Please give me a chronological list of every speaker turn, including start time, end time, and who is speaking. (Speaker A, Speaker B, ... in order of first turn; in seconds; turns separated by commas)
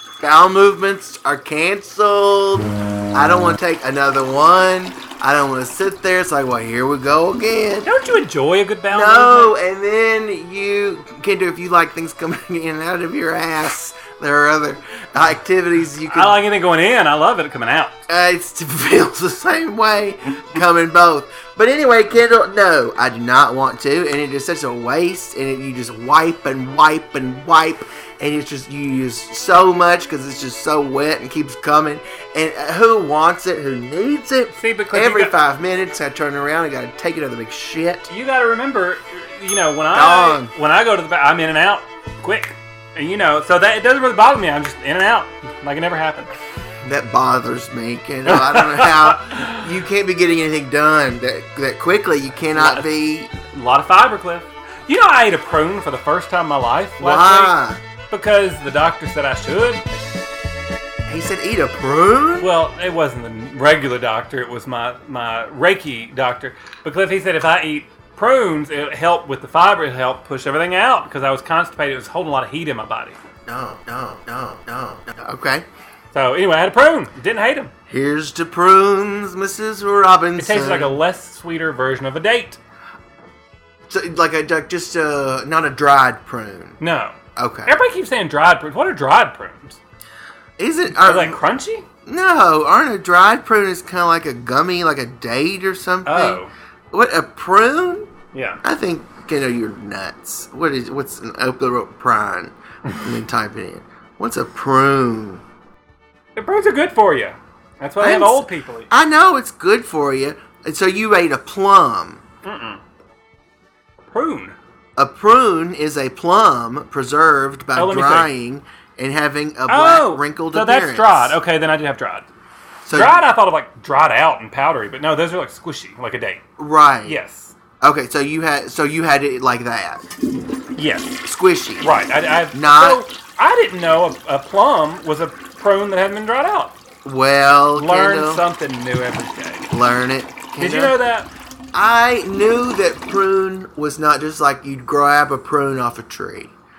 Speaker A: 0.2-7.9, Speaker B: 7.8-9.6, Speaker A: 8.9-16.4, Speaker B: 16.0-18.0, Speaker A: 18.1-38.1, Speaker B: 34.6-35.3, Speaker B: 38.1-46.3, Speaker A: 39.9-40.5, Speaker A: 46.8-53.3, Speaker B: 48.2-49.6, Speaker B: 52.5-52.9, Speaker B: 53.5-59.8, Speaker A: 57.0-57.8, Speaker A: 61.1-62.5, Speaker B: 62.4-73.2, Speaker A: 73.5-75.7, Speaker B: 76.1-77.7, Speaker A: 77.9-81.0, Speaker B: 80.4-82.6, Speaker A: 83.9-86.8, Speaker B: 86.8-89.8, Speaker A: 87.3-87.7, Speaker A: 90.6-91.4, Speaker B: 91.0-91.8, Speaker A: 92.0-98.1, Speaker B: 96.0-96.5, Speaker B: 98.3-98.6, Speaker A: 98.6-105.4, Speaker B: 106.3-108.9, Speaker A: 108.0-112.2, Speaker B: 112.4-112.8, Speaker B: 114.1-114.5, Speaker A: 115.0-121.4, Speaker B: 117.7-118.3, Speaker B: 119.7-122.3, Speaker A: 122.8-123.2, Speaker B: 122.9-126.4, Speaker A: 126.6-127.2, Speaker B: 127.0-127.5, Speaker A: 127.8-130.0, Speaker B: 130.8-131.2, Speaker A: 131.2-131.9, Speaker B: 131.8-136.8, Speaker A: 132.5-133.1, Speaker A: 137.0-138.4, Speaker B: 137.8-139.7, Speaker A: 139.7-141.0, Speaker B: 140.6-141.3, Speaker A: 141.7-146.5